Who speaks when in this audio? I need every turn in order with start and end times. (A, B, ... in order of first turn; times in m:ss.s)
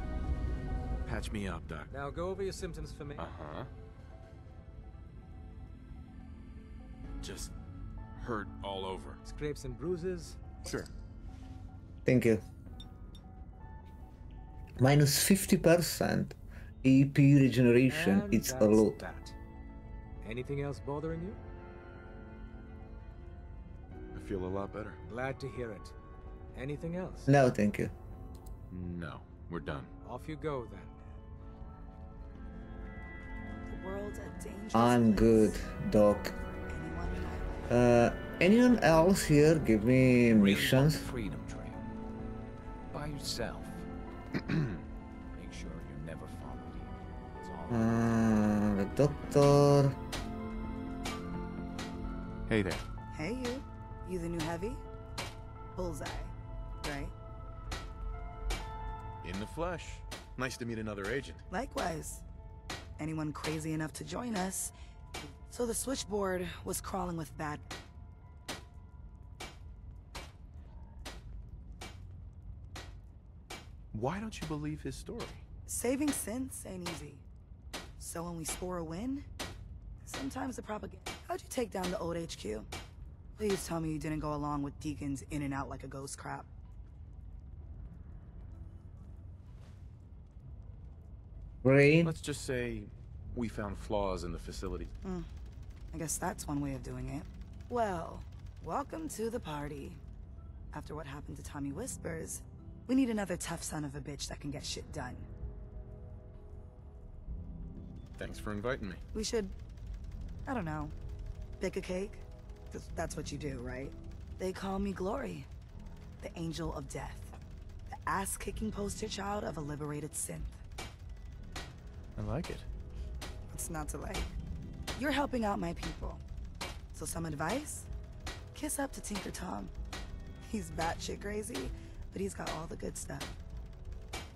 0:01.1-0:01.9 A
0:01.9-0:03.3 B
0:03.2-0:03.7 A
0:07.2-0:07.5 A
0:08.2-0:09.2 A
0:09.2-0:10.8 B
0:10.6-0:10.9 A
0:12.0-0:12.4 C
0:14.8-0:19.0 C
0:17.9-0:19.4 B
0:20.2-0:21.4 B
0:24.1-0:25.0 A
0:25.1-0:26.0 B
0:26.6-0:27.4 B
0:27.3-0:27.9 C
0:28.7-0:29.9 A
0:30.0-0:31.0 B
0:33.7-0:35.6 D
0:34.7-0:36.3 C
0:36.7-0:37.5 D
0:37.7-0:41.0 C
0:40.3-0:41.9 E
0:42.9-0:43.9 E
0:44.4-0:44.8 A
0:45.4-0:48.1 E
0:47.7-0:50.0 C
0:52.5-0:52.8 A
0:53.1-0:54.8 D
0:55.8-0:57.1 D
0:59.2-1:01.4 A
1:01.5-1:02.2 D
1:03.0-1:04.7 D
1:05.3-1:07.6 D
1:13.9-1:15.4 A
1:15.7-1:17.2 D
1:18.0-1:19.3 D
1:20.0-1:22.7 D
1:23.4-1:26.5 D
1:31.6-1:32.2 C
1:32.0-1:34.9 A
1:35.0-1:35.3 D
1:35.9-1:40.0 D
1:40.7-1:45.3 D
1:48.2-1:49.0 A
1:49.1-1:49.6 D
1:50.5-1:51.0 D
1:51.6-1:55.5 D
1:56.2-1:57.4 D
1:57.9-2:00.6 D
2:02.2-2:02.7 A
2:03.5-2:04.4 D
2:05.0-2:06.2 D
2:06.9-2:07.9 D
2:08.5-2:09.7 D
2:10.4-2:13.3 D